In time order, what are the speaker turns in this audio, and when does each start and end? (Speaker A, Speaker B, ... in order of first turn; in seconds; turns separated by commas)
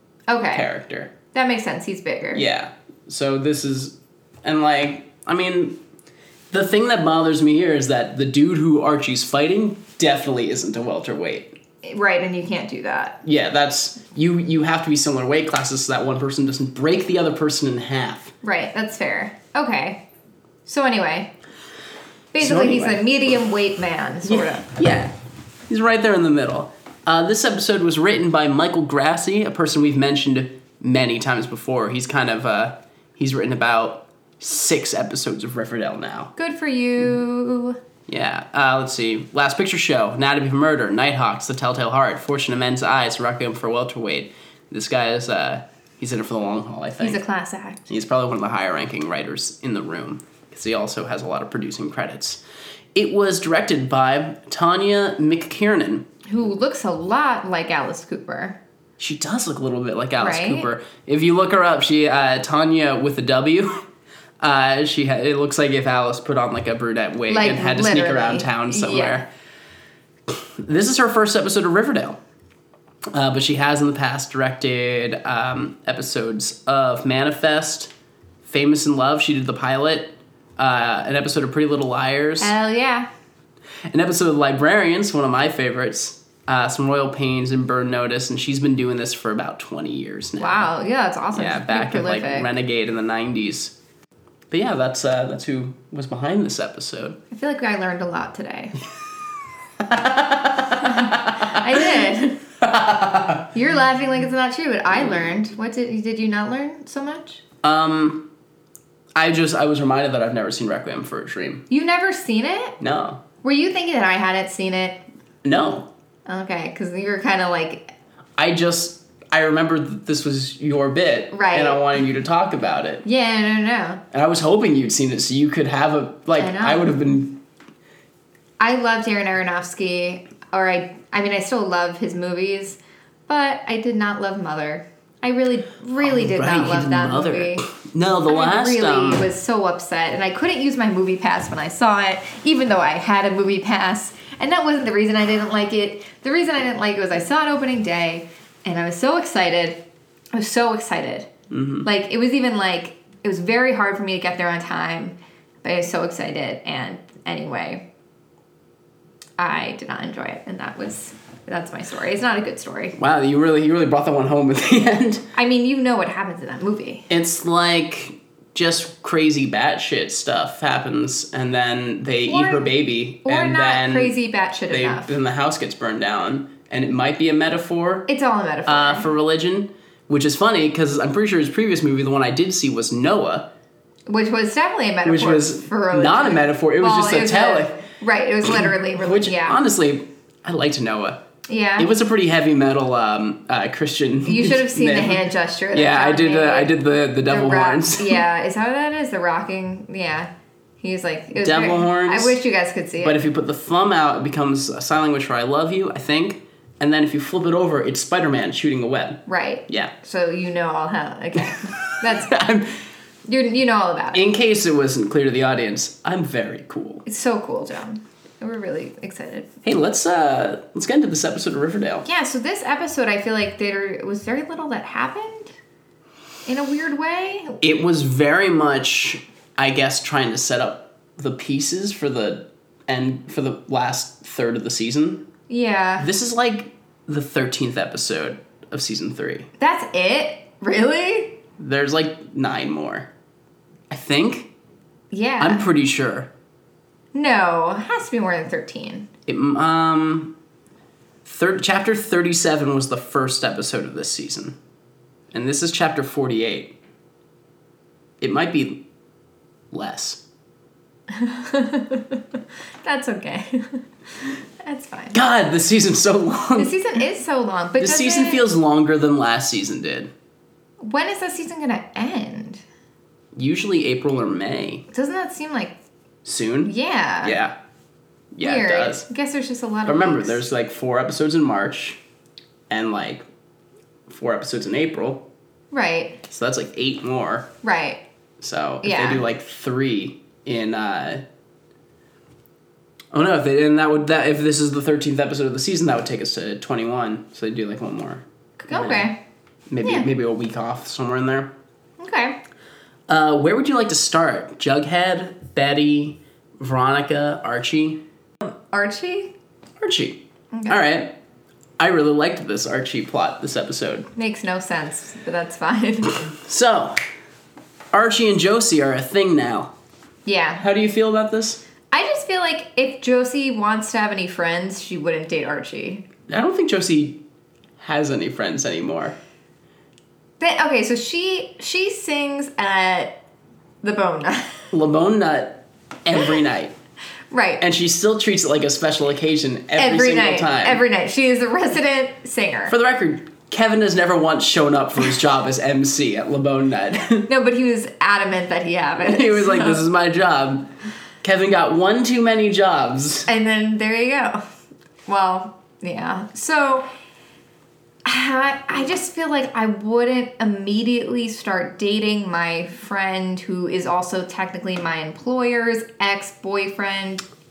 Speaker A: 0.3-0.7, Speaker B: 0.5-1.1, Speaker A: 1.3-2.4, Speaker B: 2.3-5.8, Speaker B: 6.5-11.5, Speaker A: 11.8-13.2, Speaker B: 13.2-18.3, Speaker A: 18.4-20.0, Speaker A: 20.6-21.3, Speaker A: 22.3-24.7, Speaker B: 22.4-23.0, Speaker B: 24.2-25.1, Speaker B: 25.7-36.3, Speaker A: 36.4-37.8, Speaker B: 38.1-47.2, Speaker A: 47.0-47.9, Speaker B: 47.9-52.4, Speaker B: 52.9-56.0, Speaker A: 56.3-58.6, Speaker B: 59.0-63.9, Speaker A: 60.2-60.7, Speaker B: 64.4-69.3, Speaker A: 67.3-69.2, Speaker B: 70.3-72.2, Speaker B: 73.1-77.9, Speaker B: 78.4-82.5, Speaker A: 82.4-83.1, Speaker B: 83.9-90.7, Speaker A: 90.4-92.5, Speaker B: 91.3-93.7, Speaker B: 94.5-97.2, Speaker A: 97.3-98.8, Speaker B: 99.8-101.9, Speaker A: 100.8-102.4, Speaker B: 102.6-103.5, Speaker A: 103.5-107.4, Speaker B: 107.6-108.3, Speaker B: 109.2-111.7, Speaker A: 111.7-112.8, Speaker B: 112.8-113.2, Speaker A: 113.4-115.0, Speaker B: 115.4-115.9, Speaker A: 116.2-117.9, Speaker B: 118.4-123.0, Speaker A: 121.3-121.8, Speaker A: 123.0-124.0, Speaker B: 124.1-127.4, Speaker A: 126.4-126.9, Speaker A: 128.6-137.7, Speaker B: 136.0-139.3, Speaker A: 138.3-149.8, Speaker A: 150.3-151.3, Speaker B: 151.5-151.9, Speaker A: 151.8-157.8, Speaker A: 159.4-162.9, Speaker B: 162.9-165.2, Speaker A: 165.3-167.1, Speaker B: 167.1-174.2, Speaker A: 172.2-172.7, Speaker A: 173.2-175.1, Speaker B: 174.7-178.1, Speaker A: 178.1-179.1, Speaker B: 178.7-183.5, Speaker A: 184.1-189.6, Speaker B: 185.0-187.8, Speaker B: 188.6-191.2, Speaker A: 191.5-191.9, Speaker B: 191.8-195.2, Speaker A: 194.2-196.7, Speaker B: 195.7-198.2, Speaker A: 197.3-200.3, Speaker A: 200.8-203.2, Speaker B: 201.3-202.4, Speaker B: 203.0-209.9, Speaker A: 209.3-212.3, Speaker B: 211.4-212.7, Speaker A: 213.2-214.3, Speaker B: 214.1-217.0, Speaker A: 217.1-219.5, Speaker B: 219.6-222.1, Speaker A: 222.0-225.5, Speaker A: 226.4-227.6, Speaker B: 227.6-235.3, Speaker A: 235.5-236.1, Speaker B: 236.0-239.5, Speaker A: 239.6-241.4, Speaker B: 241.6-243.1, Speaker B: 243.9-244.5, Speaker A: 245.1-245.7, Speaker B: 245.4-246.3, Speaker A: 247.1-249.1, Speaker B: 249.3-250.3, Speaker B: 251.2-254.6, Speaker B: 255.3-256.7, Speaker B: 258.2-258.8, Speaker B: 259.7-260.2, Speaker A: 261.1-262.2, Speaker A: 262.8-263.8, Speaker A: 264.6-265.2, Speaker B: 265.1-266.7, Speaker A: 266.6-268.4, Speaker B: 267.8-270.1, Speaker A: 270.8-272.6, Speaker B: 273.3-274.9, Speaker A: 274.9-275.7, Speaker B: 276.2-276.7, Speaker A: 276.6-277.4, Speaker B: 277.2-277.5, Speaker B: 278.3-279.1, Speaker A: 278.4-280.4, Speaker B: 279.9-282.0, Speaker B: 282.7-283.2, Speaker B: 284.1-285.2, Speaker A: 285.7-286.2, Speaker B: 286.3-287.5, Speaker A: 287.6-288.0, Speaker B: 288.4-291.2, Speaker A: 288.8-289.2, Speaker B: 293.1-299.1, Speaker A: 298.6-299.2, Speaker B: 299.7-301.5, Speaker A: 302.0-302.4, Speaker B: 303.1-308.0, Speaker A: 308.7-309.3, Speaker B: 309.8-311.1, Speaker A: 310.5-310.8, Speaker B: 311.8-314.1, Speaker A: 314.1-316.2, Speaker B: 316.2-317.0, Speaker B: 317.9-319.7, Speaker A: 320.2-320.6, Speaker B: 320.6-321.6, Speaker A: 321.9-326.1, Speaker B: 326.3-327.2, Speaker B: 327.8-329.2, Speaker A: 330.4-333.2, Speaker A: 333.8-334.6, Speaker B: 334.7-336.7, Speaker A: 337.3-337.6, Speaker B: 337.6-340.8, Speaker A: 339.8-342.7, Speaker B: 342.7-347.3, Speaker A: 347.3-349.8, Speaker B: 349.0-350.7, Speaker B: 351.2-353.3, Speaker A: 353.3-354.4, Speaker A: 355.1-356.9, Speaker A: 358.0-367.2